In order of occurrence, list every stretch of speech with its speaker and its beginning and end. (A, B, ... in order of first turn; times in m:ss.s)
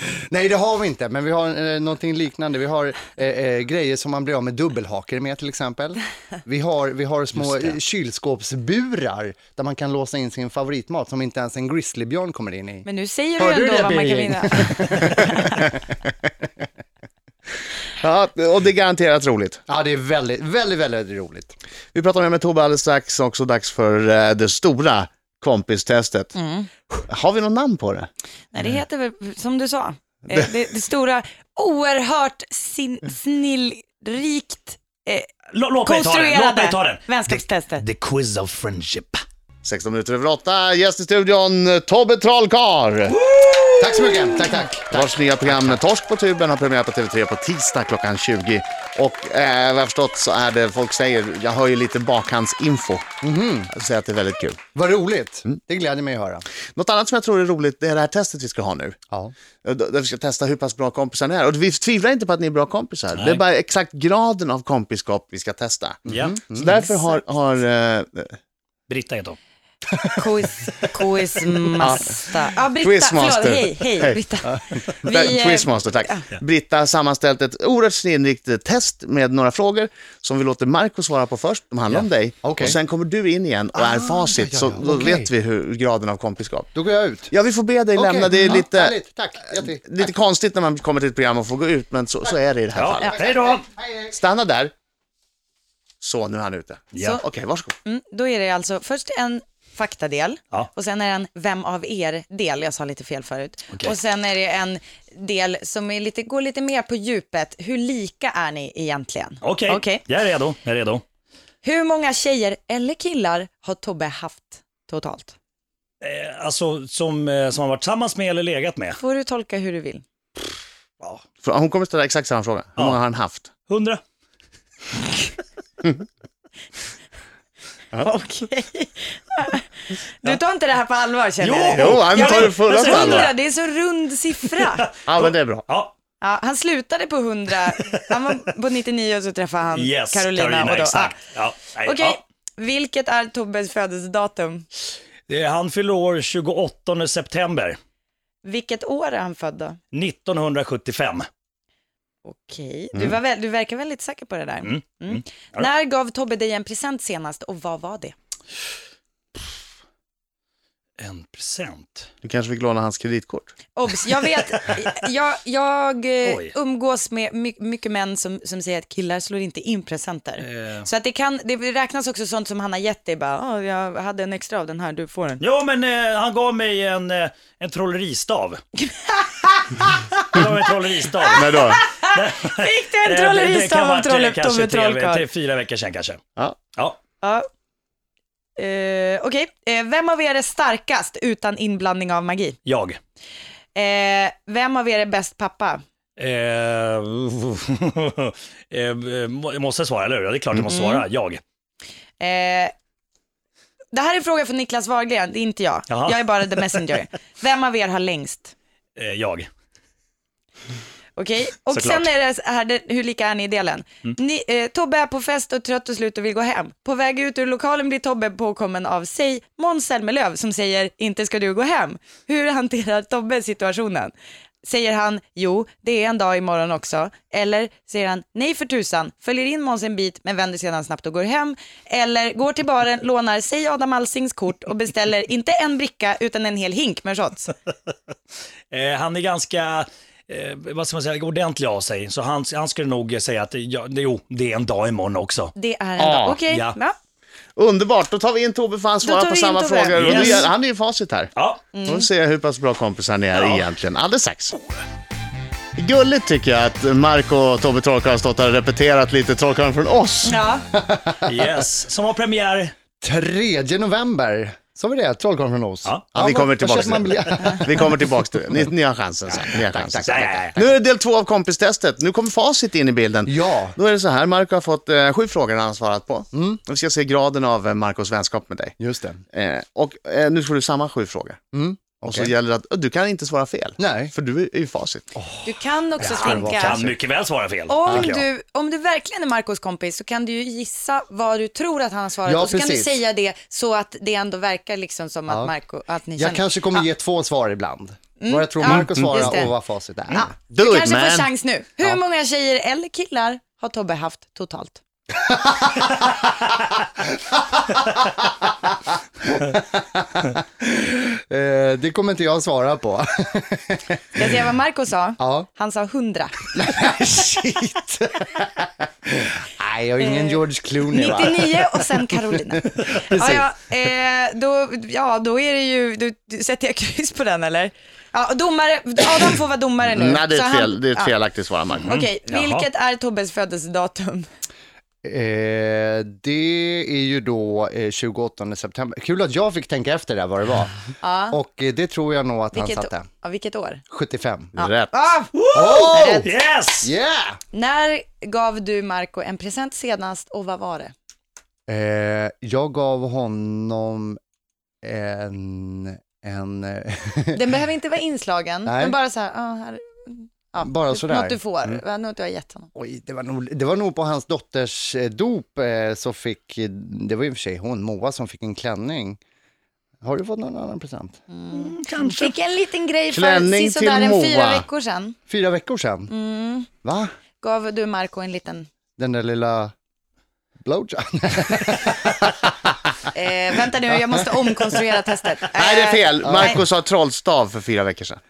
0:00.3-0:12.8 A
0:12.8-0:15.6 B
0:13.4-0:15.8 A
0:18.0-0:19.6 C
0:19.7-0:21.5 A
0:21.9-0:26.3 C
0:26.3-0:26.7 B
0:26.9-0:28.1 C
0:28.5-0:35.3 B
0:35.5-0:39.2 D
0:35.8-0:37.8 B
0:39.6-0:43.1 C
0:43.4-0:44.3 D
0:43.8-0:45.8 A
0:44.0-0:44.5 B
0:44.9-0:53.1 C
0:53.2-0:53.7 A
0:53.7-0:54.6 C
0:54.7-0:56.4 A
0:56.7-0:59.0 C
0:59.6-1:08.4 C
1:03.1-1:03.4 D
1:06.0-1:06.8 A
1:06.1-1:06.3 D
1:06.8-1:07.2 B
1:08.9-1:09.4 D
1:10.1-1:16.2 B
1:11.8-1:12.2 C
1:12.8-1:14.2 C
1:14.9-1:26.7 C
1:22.4-1:22.8 A
1:23.7-1:25.3 A
1:26.7-1:27.3 A
1:27.3-1:28.9 C
1:27.9-1:30.1 A
1:29.5-1:33.3 C
1:32.7-1:33.6 D
1:33.2-1:34.1 A
1:34.1-1:34.7 C
1:36.0-1:37.7 C
1:37.8-1:50.0 B
1:49.4-1:51.0 D
1:51.6-1:55.4 B
1:56.0-1:59.0 D
1:59.0-2:00.0 B
2:01.4-2:03.5 C
2:03.7-2:04.0 D
2:08.0-2:09.7 B
2:10.2-2:14.9 B
2:11.4-2:13.3 D
2:11.8-2:13.3 C
2:14.4-2:15.9 D
2:15.0-2:15.6 C
2:16.2-2:21.1 B
2:19.8-2:22.2 D
2:21.8-2:24.6 B
2:25.3-2:27.8 D
2:28.4-2:29.8 B
2:29.9-2:31.3 D
2:32.2-2:38.1 B
2:34.6-2:35.7 D
2:41.0-2:42.1 D
2:42.2-2:43.5 C
2:43.7-2:55.4 B
2:46.2-2:46.5 D
2:50.4-2:50.9 D
2:55.4-2:58.6 D
2:58.8-3:00.4 B
3:00.2-3:06.2 D
3:01.2-3:05.2 B
3:01.3-3:01.8 C
3:07.2-3:07.5 B
3:08.6-3:12.6 B
3:12.6-3:13.0 D
3:13.7-3:15.8 B
3:16.2-3:21.4 D
3:20.7-3:21.0 B
3:22.2-3:22.7 B
3:23.9-3:28.5 B
3:25.9-3:26.8 D
3:29.0-3:29.5 D
3:31.2-3:57.5 B
3:31.7-3:32.0 D
3:58.7-4:05.5 D
4:05.6-4:07.0 B
4:06.0-4:06.4 C
4:06.4-4:06.8 D
4:07.6-4:11.3 C
4:09.0-4:10.5 B
4:10.0-4:10.5 D
4:11.4-4:11.6 D
4:11.7-4:12.1 B
4:11.8-4:14.5 C
4:13.3-4:13.6 D
4:15.8-4:20.4 C
4:20.2-4:20.6 B
4:20.7-4:21.5 A
4:21.2-4:22.7 D
4:23.0-4:28.0 A
4:26.1-4:38.7 C
4:29.7-4:30.4 A
4:29.9-4:30.7 D
4:33.2-4:33.8 A
4:36.3-4:36.6 A
4:38.8-4:39.2 A
4:39.3-4:41.4 C
4:41.5-4:42.3 A
4:42.0-4:45.0 C
4:43.8-4:44.1 A
4:45.2-4:45.5 A
4:45.4-4:46.8 B
4:46.0-4:46.9 A
4:46.0-4:48.2 D
4:47.7-4:56.8 B
4:52.2-4:53.0 A
4:56.2-5:00.3 A
4:58.2-4:59.5 B
4:58.6-4:59.2 C
5:00.1-5:04.8 B
5:00.5-5:01.3 C
5:05.2-5:14.3 A
5:14.1-5:16.8 B
5:15.2-5:15.5 A
5:16.5-5:23.5 A
5:20.0-5:31.1 B
5:29.9-5:31.9 C
5:31.8-5:34.2 B
5:31.9-5:32.6 D
5:35.0-5:43.1 A
5:41.0-5:41.4 B
5:42.5-5:43.8 B
5:43.9-5:44.5 A
5:44.6-5:46.2 B
5:44.6-5:44.9 C
5:45.3-5:46.9 D
5:45.5-5:47.4 A
5:47.5-5:50.9 B
5:51.7-5:54.2 A
5:54.8-5:57.4 A
5:57.3-6:02.7 B
5:58.6-5:59.0 A
6:00.6-6:01.8 A
6:02.7-6:09.2 A
6:10.0-6:11.2 A
6:11.3-6:15.2 B
6:11.5-6:12.3 D
6:13.1-6:14.6 C
6:15.3-6:16.1 A
6:16.1-6:16.7 B
6:16.8-6:17.1 A
6:17.4-6:18.7 B
6:19.0-6:19.7 A
6:20.6-6:22.9 A
6:23.1-6:26.6 B
6:25.5-6:28.2 C
6:26.2-6:26.6 A